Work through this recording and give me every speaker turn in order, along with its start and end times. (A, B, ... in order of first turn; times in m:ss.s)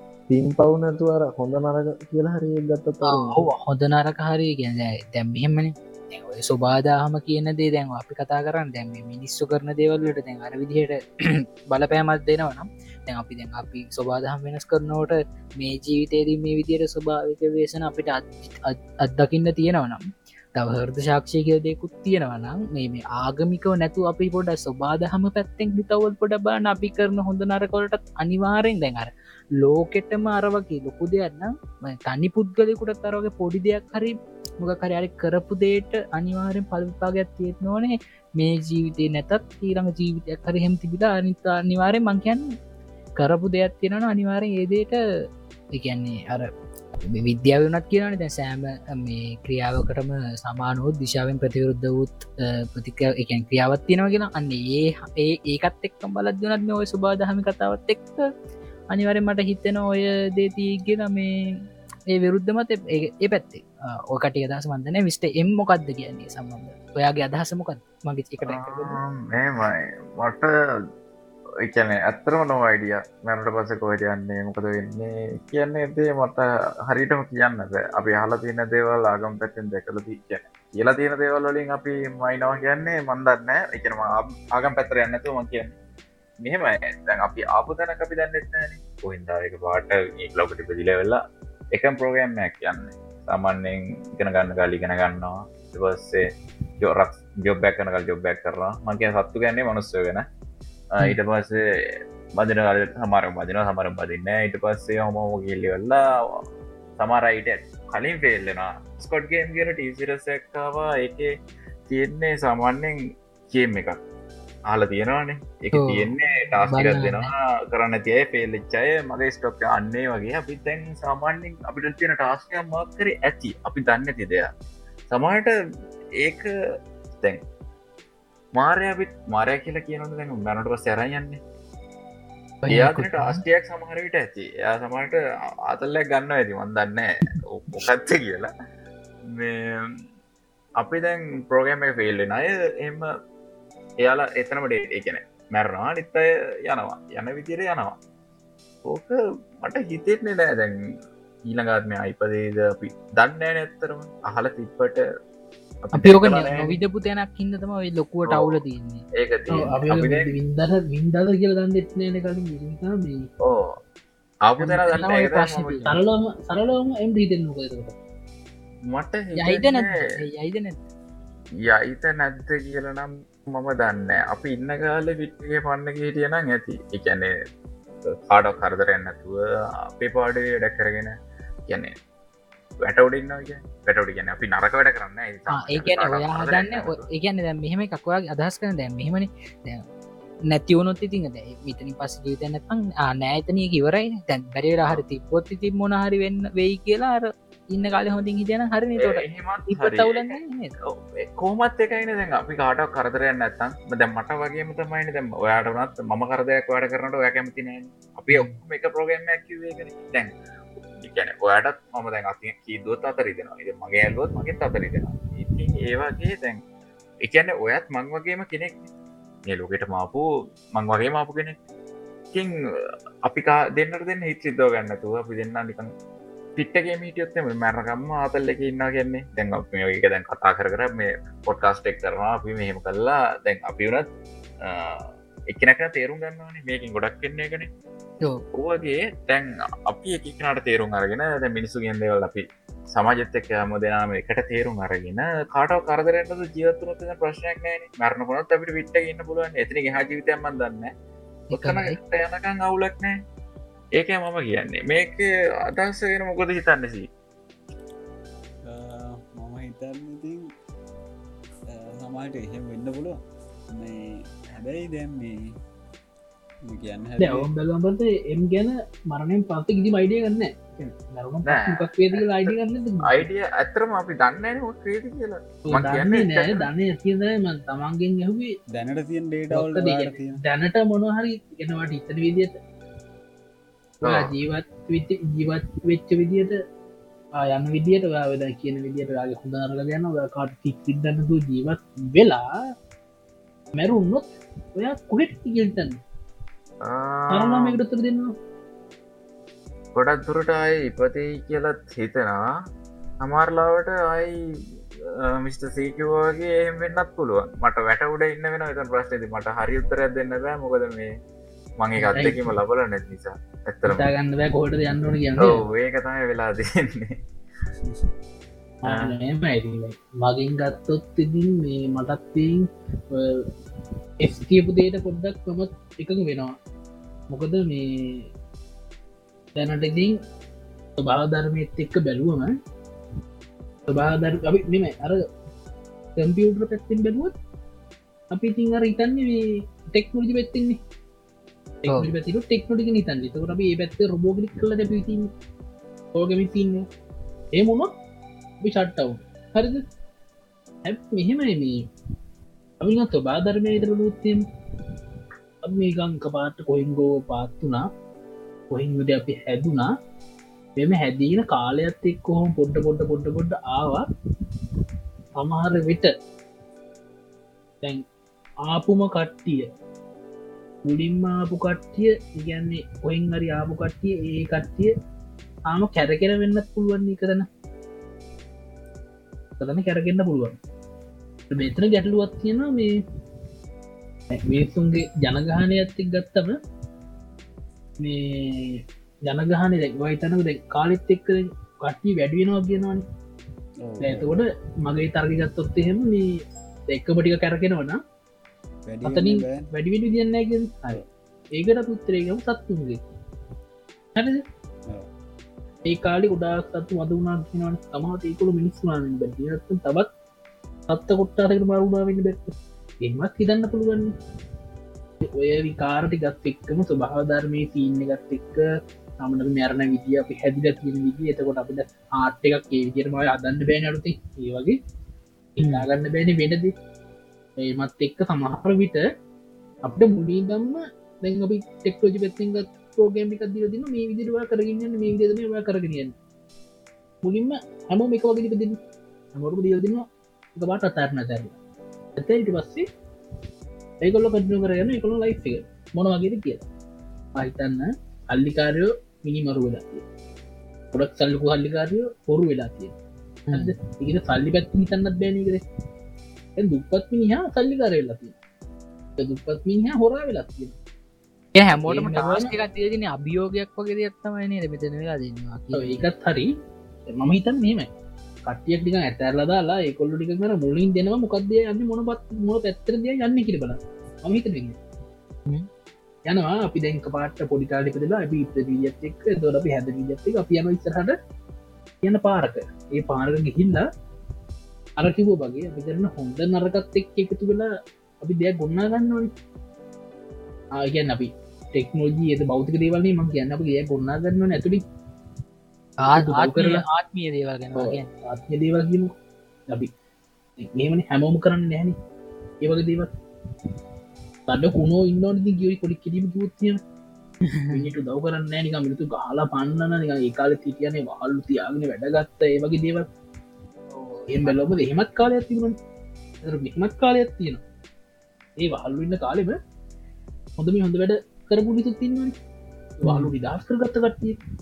0:00.3-0:03.5 A
0:03.0-0:42.4 B
0:43.2-0:45.0 B
0:45.7-0:46.5 B
0:47.0-0:58.3 B
0:58.9-1:01.3 B
1:02.1-1:09.0 B
1:08.4-1:10.5 C
1:11.6-1:25.7 C
1:26.4-1:31.2 C
1:31.7-1:36.2 C
1:36.8-1:40.2 C
1:40.9-1:46.0 C
1:47.0-1:51.3 C
1:51.9-1:54.0 C
1:54.7-2:04.5 C
1:55.7-1:57.3 B
2:05.1-2:05.5 C
2:06.2-2:06.5 C
2:08.6-2:11.4 C
2:12.6-2:13.4 B
2:12.7-2:18.5 C
2:19.3-2:20.0 C
2:20.8-2:23.1 C
2:24.0-2:28.0 C
2:28.9-2:30.8 C
2:31.5-2:35.0 C
2:35.8-2:36.7 C
2:35.9-2:39.0 B
2:38.3-2:38.6 C
2:39.1-2:40.3 C
2:39.5-2:43.3 D
2:43.4-2:43.8 C
2:44.5-2:46.0 C
2:44.6-2:45.8 B
2:45.8-2:48.0 D
2:48.9-2:49.9 C
2:49.4-2:50.8 B
2:51.6-2:57.3 C
2:58.0-2:59.4 C
3:00.0-3:01.1 C
3:01.7-3:01.9 C
3:02.8-3:07.1 C
3:05.5-3:09.8 B
3:10.5-3:20.7 B
3:19.0-3:30.3 C
3:28.3-3:28.6 B
3:31.0-3:36.6 C
3:37.2-3:38.8 C
3:39.5-3:41.6 C
3:43.2-3:45.9 C
3:46.6-3:54.1 C
3:54.6-3:57.7 C
3:58.5-4:10.9 C
4:11.5-4:13.2 C
4:11.5-4:12.0 B
4:14.0-4:17.1 C
4:18.6-4:20.4 E
4:21.7-4:25.5 E
4:26.6-4:27.5 E
4:27.2-4:33.2 D
4:31.4-4:36.7 C
4:35.7-4:38.6 D
4:38.7-4:40.4 E
4:39.5-4:42.6 D
4:44.0-4:46.6 D
4:44.0-4:44.3 C
4:47.4-4:52.5 D
4:53.7-4:56.0 D
4:56.8-4:57.8 C
4:57.3-4:58.3 D
4:59.9-5:02.4 C
5:03.2-5:11.1 C
5:11.8-5:14.1 C
5:12.1-5:12.4 D
5:13.9-5:15.6 D
5:15.4-5:17.2 C
5:17.8-5:18.1 E
5:18.8-5:23.5 D
5:18.8-5:19.2 C
5:24.2-5:26.6 D
5:27.3-5:28.3 D
5:29.5-5:30.2 D
5:31.0-5:32.5 D
5:33.9-5:35.3 D
5:36.2-5:37.3 D
5:38.3-5:40.8 D
5:41.8-5:45.3 D
5:41.9-5:42.1 B
5:46.1-5:46.9 D
5:47.5-5:47.9 D
5:48.6-5:49.9 D
5:50.8-5:51.9 D
5:52.8-5:54.4 D
5:55.6-5:57.9 D
5:58.7-5:59.9 D
6:00.8-6:04.1 D
6:05.4-6:06.1 D
6:08.6-6:09.7 D
6:10.8-6:14.9 D
6:15.7-6:17.5 D
6:19.6-6:20.6 D
6:21.5-6:23.0 D
6:24.3-6:26.6 D
6:28.0-6:33.0 D
6:33.8-6:34.3 E
6:34.0-6:38.0 D
6:38.8-6:39.7 E
6:39.0-6:41.0 D
6:41.5-6:43.0 D
6:44.1-6:44.4 D
6:45.8-6:50.1 D
6:50.9-6:54.1 D
6:55.2-6:58.6 D
6:59.2-7:04.8 D
7:05.6-7:06.7 D
7:07.6-7:09.1 D
7:09.8-7:16.1 D
7:17.2-7:18.8 D
7:19.3-7:21.6 D
7:22.2-7:22.9 D
7:24.0-7:26.6 D
7:27.3-7:30.0 D
7:30.9-7:33.0 D
7:33.5-7:33.7 B
7:33.5-7:35.6 D
7:36.6-7:38.4 D
7:39.2-7:40.8 D
7:41.5-7:46.0 B
7:41.8-7:42.5 D
7:45.7-7:46.5 D
7:47.1-7:47.9 D
7:48.4-7:54.8 D
7:56.3-8:01.2 D
8:02.0-8:03.9 D
8:05.0-8:09.3 D
8:10.8-8:14.8 D
8:16.0-8:18.1 B
8:16.1-8:16.8 D
8:17.8-8:19.1 D
8:20.6-8:22.0 D
8:22.6-8:23.1 D
8:24.5-8:26.8 D
8:27.4-8:27.8 B
8:27.7-8:33.1 D
8:33.9-8:34.8 B
8:34.3-8:35.8 D
8:36.4-8:37.6 D
8:38.6-8:39.6 D
8:40.6-8:42.3 D
8:43.0-8:44.4 D
8:43.0-8:43.3 B